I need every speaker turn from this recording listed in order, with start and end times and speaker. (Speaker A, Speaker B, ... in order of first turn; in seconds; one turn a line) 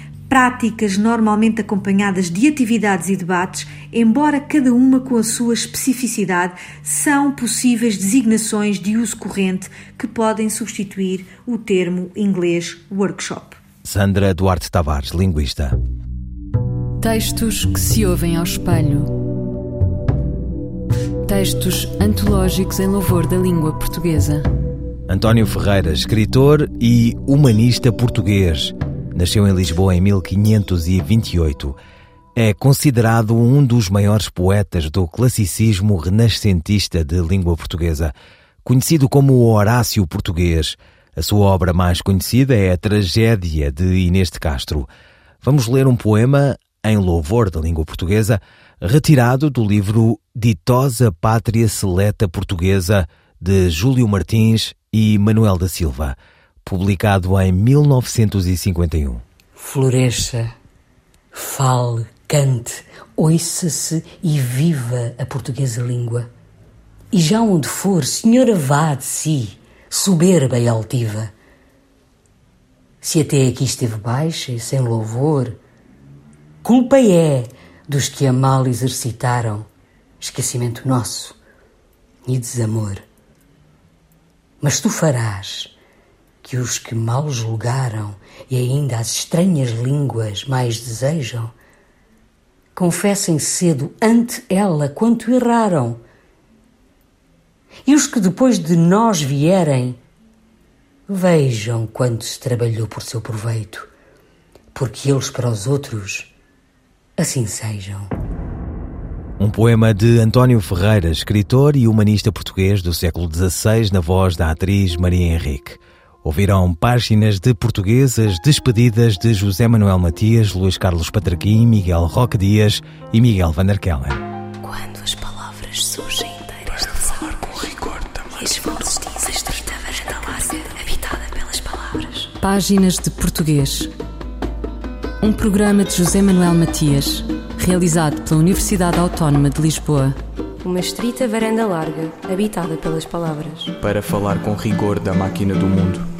Speaker A: 0.3-13.6
Speaker B: 13.8-15.8
Speaker C: 17.0-19.1
Speaker C: 21.2-24.4
Speaker B: 25.1-31.8
Speaker B: 32.4-44.9
Speaker B: 45.4-59.2
Speaker D: 59.5-60.5
Speaker D: 61.3-66.3
Speaker D: 67.1-71.3
Speaker D: 73.0-75.6
Speaker D: 76.6-79.7
Speaker D: 80.2-81.4
Speaker D: 82.2-83.0
Speaker D: 84.6-85.7
Speaker D: 86.4-91.5
Speaker D: 92.7-96.0
Speaker D: 97.8-100.0
Speaker D: 101.1-103.9
Speaker D: 104.7-106.3
Speaker D: 107.2-108.1
Speaker B: 109.4-124.2
Speaker E: 124.6-132.3
Speaker C: 132.4-133.9
Speaker C: 135.2-140.2
Speaker E: 140.6-143.7
Speaker F: 143.8-146.1